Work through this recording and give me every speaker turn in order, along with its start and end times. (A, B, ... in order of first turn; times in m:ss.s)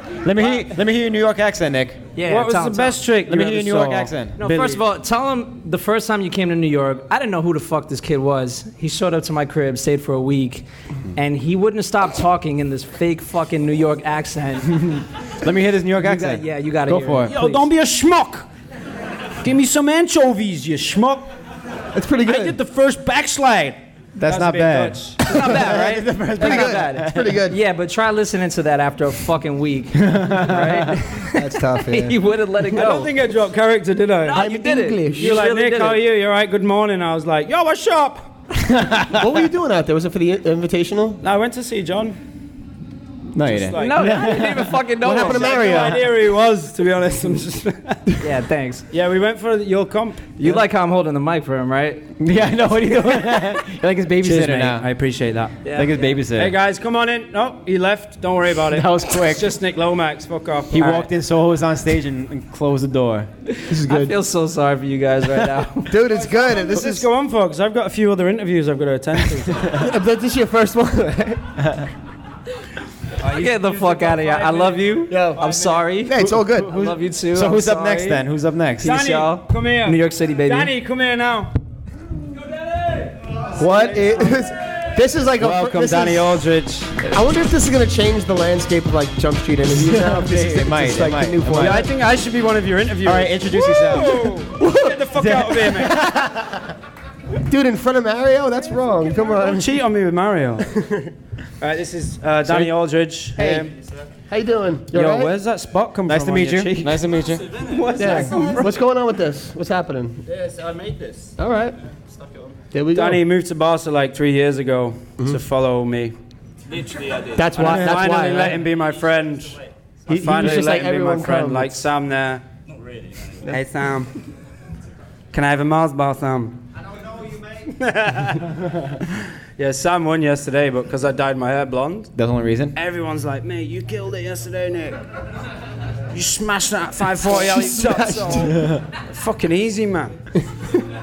0:00.2-0:02.1 A
0:02.2-0:03.0 B
0:02.3-0:04.8 C
0:03.3-0:04.4 A
0:04.4-0:14.9 B
0:15.4-0:17.3 A
0:16.0-0:17.7 B
0:17.3-0:18.5 C
0:19.4-0:21.3 C
0:21.9-0:22.6 D
0:22.2-0:25.4 C
0:24.2-0:27.4 A
0:25.2-0:33.1 B
0:26.4-0:27.6 D
0:30.0-0:30.9 A
0:31.3-0:32.2 D
0:32.7-0:34.4 C
0:34.2-0:36.0 B
0:34.3-0:35.4 D
0:35.2-0:38.3 C
0:38.6-0:39.2 A
0:39.1-0:41.2 D
0:41.2-0:42.2 C
0:43.3-0:45.2 A
0:43.4-0:44.3 C
0:43.8-0:45.9 B
0:45.0-0:46.0 D
0:45.2-0:48.0 C
0:48.2-0:48.8 B
0:48.9-0:50.6 C
0:50.4-0:52.1 B
0:52.2-0:54.9 A
0:54.2-0:55.6 C
0:55.6-0:56.2 B
0:55.7-0:56.6 A
0:56.3-1:01.1 C
0:58.7-0:59.6 A
1:00.7-1:03.3 A
1:03.7-1:04.2 D
1:03.7-1:06.0 B
1:05.9-1:07.1 D
1:06.1-1:09.7 C
1:09.7-1:11.6 D
1:13.2-1:15.7 C
1:13.2-1:18.2 B
1:15.1-1:15.4 D
1:16.0-1:16.7 D
1:16.6-1:18.9 A
1:18.8-1:20.7 B
1:18.8-1:21.5 C
1:23.6-1:26.4 D
1:23.6-1:24.3 C
1:25.4-1:27.1 C
1:27.1-1:31.9 D
1:29.8-1:31.8 A
1:31.5-1:36.0 C
1:33.0-1:34.4 A
1:34.6-1:35.0 D
1:35.2-1:36.4 A
1:37.5-1:39.8 D
1:39.2-1:40.7 C
1:40.6-1:41.1 D
1:41.6-1:43.7 C
1:42.5-1:42.7 A
1:43.4-1:43.6 D
1:44.3-1:45.3 D
1:44.9-1:47.0 C
1:46.1-1:47.4 A
1:47.0-1:48.8 E
1:47.7-1:48.7 B
1:48.0-1:50.2 D
1:50.2-1:51.4 E
1:51.4-1:51.8 D
1:52.1-1:52.6 E
1:52.7-1:53.2 D
1:52.9-1:56.2 C
1:56.7-1:57.7 E
1:57.4-1:58.6 D
1:57.5-2:02.4 C
1:58.8-1:59.7 E
2:00.1-2:01.8 D
2:02.7-2:03.5 E
2:03.5-2:04.1 C
2:05.3-2:06.6 C
2:07.6-2:08.5 C
2:09.6-2:12.1 C
2:12.2-2:12.8 A
2:12.7-2:15.0 C
2:16.1-2:20.2 C
2:17.3-2:18.6 D